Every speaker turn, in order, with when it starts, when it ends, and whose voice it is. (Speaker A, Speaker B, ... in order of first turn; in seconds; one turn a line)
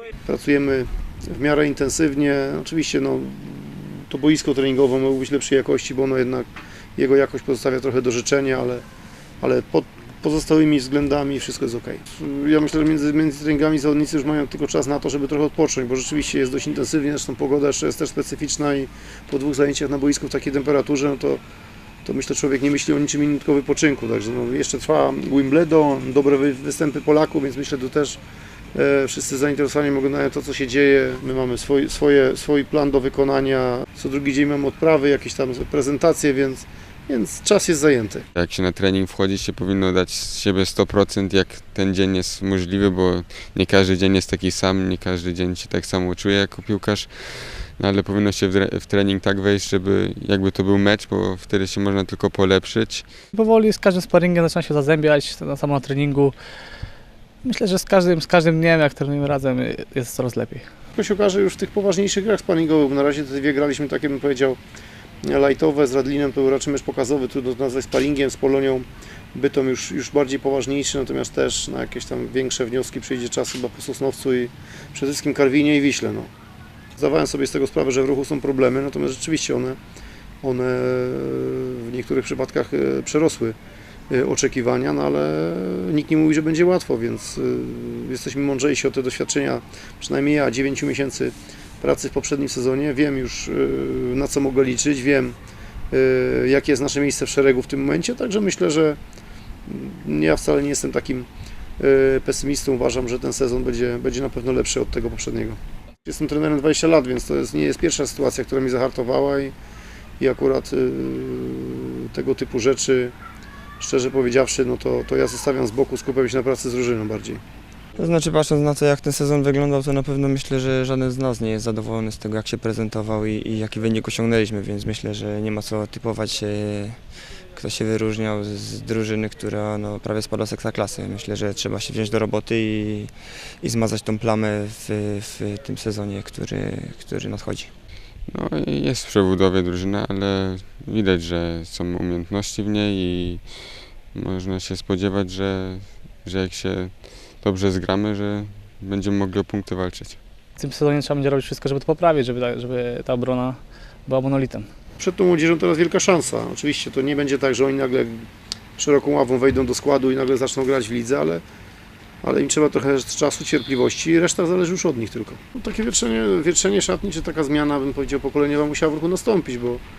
Speaker A: 0.2-8.8
Speaker A: 9.4-21.4
Speaker A: 22.0-28.2
Speaker A: 28.7-38.2
Speaker B: 38.3-53.2
Speaker C: 53.3-56.3
Speaker C: 57.4-60.6
Speaker A: 61.0-64.6
Speaker A: 65.2-76.3
Speaker A: 77.0-79.8
Speaker A: 80.4-83.5
Speaker A: 84.1-95.3
Speaker A: 95.9-99.0
Speaker A: 99.7-101.3
Speaker A: 101.8-109.5
Speaker A: 110.2-113.1
Speaker A: 113.8-117.4
Speaker D: 118.0-127.0
Speaker D: 127.5-137.7
Speaker B: 138.3-150.2
Speaker C: 150.6-154.7
Speaker A: 155.0-158.2
Speaker A: 158.8-161.4
Speaker A: 162.2-169.8